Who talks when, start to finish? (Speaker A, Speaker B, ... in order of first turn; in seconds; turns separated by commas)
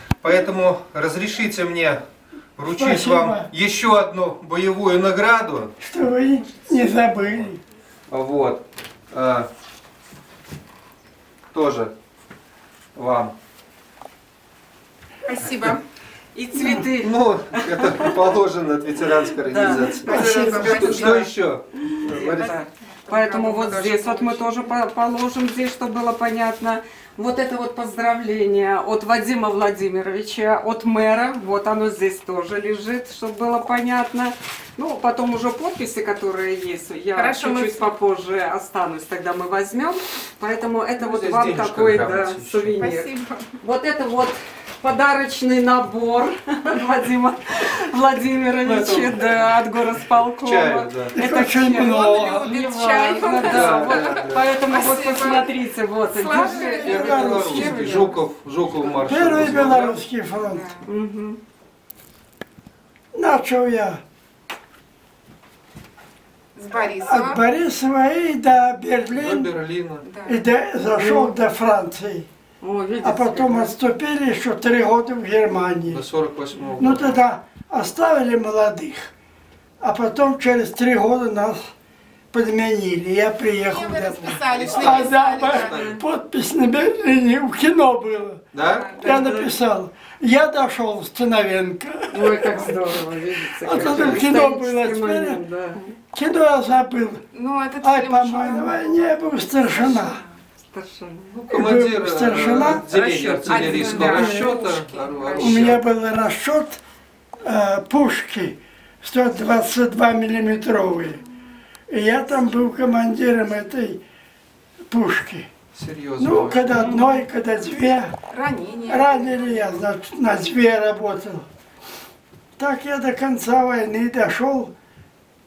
Speaker A: 0.2-2.0, Speaker A: 2.6-5.7, Speaker B: 2.6-3.5, Speaker B: 5.8-7.6, Speaker A: 8.1-9.5, Speaker A: 11.5-11.9, Speaker A: 12.9-13.3, Speaker C: 15.2-15.8, Speaker D: 16.3-18.1, Speaker B: 16.5-16.8, Speaker A: 17.0-22.5, Speaker D: 19.4-21.2, Speaker C: 20.0-21.3, Speaker B: 20.1-20.8, Speaker D: 21.8-43.1, Speaker C: 22.2-24.5, Speaker C: 37.1-37.9, Speaker A: 41.0-42.9, Speaker C: 42.8-43.5, Speaker D: 43.6-51.9, Speaker A: 48.6-49.2, Speaker A: 50.4-51.1, Speaker B: 51.1-53.0, Speaker C: 51.7-55.5, Speaker D: 52.7-57.1, Speaker A: 53.4-54.5, Speaker C: 56.1-58.2, Speaker B: 56.3-58.1, Speaker A: 56.8-60.0, Speaker B: 59.0-60.7, Speaker C: 60.4-60.9, Speaker D: 60.9-61.4, Speaker B: 63.1-64.0, Speaker C: 66.5-67.4, Speaker B: 67.0-69.5, Speaker A: 69.1-70.1, Speaker C: 70.0-70.4, Speaker B: 70.2-72.3, Speaker D: 70.9-71.4, Speaker D: 72.6-73.7, Speaker B: 73.0-76.0, Speaker A: 75.9-77.2, Speaker B: 76.8-79.1, Speaker B: 79.8-81.7, Speaker B: 82.3-92.8, Speaker C: 83.6-85.9, Speaker A: 84.5-86.0, Speaker A: 88.5-89.0, Speaker C: 88.8-89.5, Speaker D: 92.1-95.9, Speaker B: 93.6-95.4, Speaker A: 93.7-94.2, Speaker B: 96.1-97.2, Speaker C: 97.3-100.4, Speaker B: 97.8-100.2, Speaker D: 100.7-101.4, Speaker B: 101.5-102.9, Speaker A: 101.5-105.8, Speaker C: 102.8-105.7, Speaker B: 103.5-104.5, Speaker B: 105.3-106.8, Speaker B: 107.4-111.2, Speaker B: 111.9-114.0, Speaker B: 114.9-115.5, Speaker A: 115.7-116.8, Speaker B: 116.2-118.1, Speaker D: 116.7-117.2, Speaker C: 118.3-119.8, Speaker B: 118.9-121.4, Speaker B: 122.6-124.7